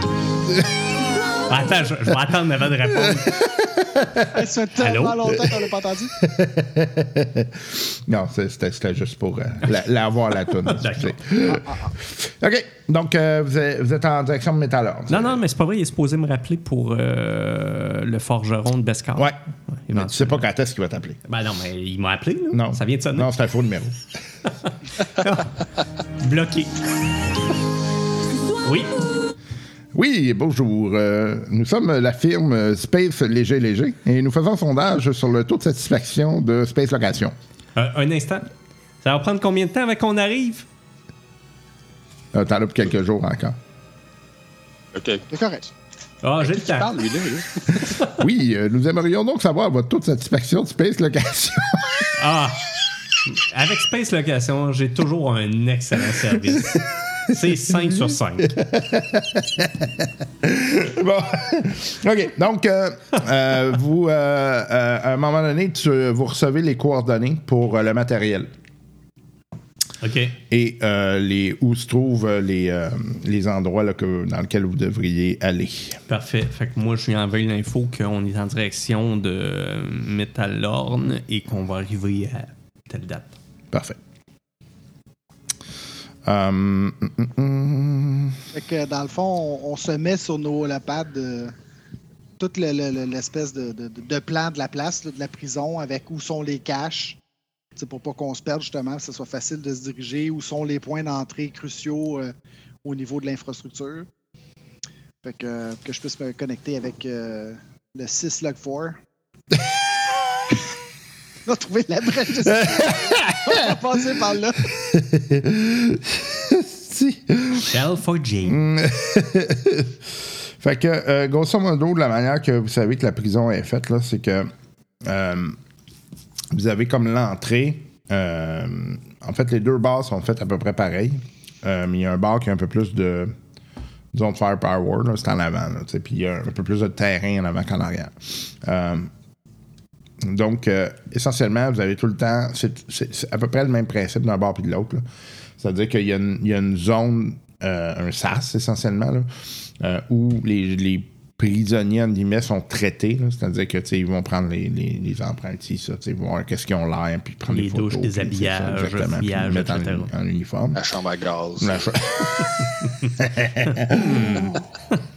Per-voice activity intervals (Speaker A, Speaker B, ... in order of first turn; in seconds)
Speaker A: 1.5-3.5, 4.8-5.4, 10.7-11.2, 15.1-19.3, 19.8-20.4, 21.3-23.3, 25.0-25.5, 26.2-26.8, 28.6-28.9, 37.8-38.5, 39.0-40.7, 46.2-46.9, 52.2-52.7, 53.3-58.6, 70.0-70.4, 76.1-83.4, 117.6-118.6, 157.5-160.1, 163.9-164.6
Speaker B: 2.9-4.3, 6.2-15.4, 19.9-21.2, 22.5-23.9, 29.9-37.4, 42.3-43.6, 48.1-52.1, 56.5-68.5, 70.5-76.0, 83.7-84.0, 86.3-88.4, 112.5-113.7, 114.7-117.8, 118.5-120.0, 120.6-124.5, 125.0-125.6, 126.5-133.3, 134.1-139.1, 140.2-145.1, 145.6-160.8, 161.6-164.6
Speaker C: 4.3-6.1, 45.3-45.7, 88.5-91.5, 92.4-97.2, 97.8-102.3, 102.8-104.1, 105.2-109.0, 111.5-114.7
Speaker D: 44.9-45.2, 46.4-48.0, 160.8-162.0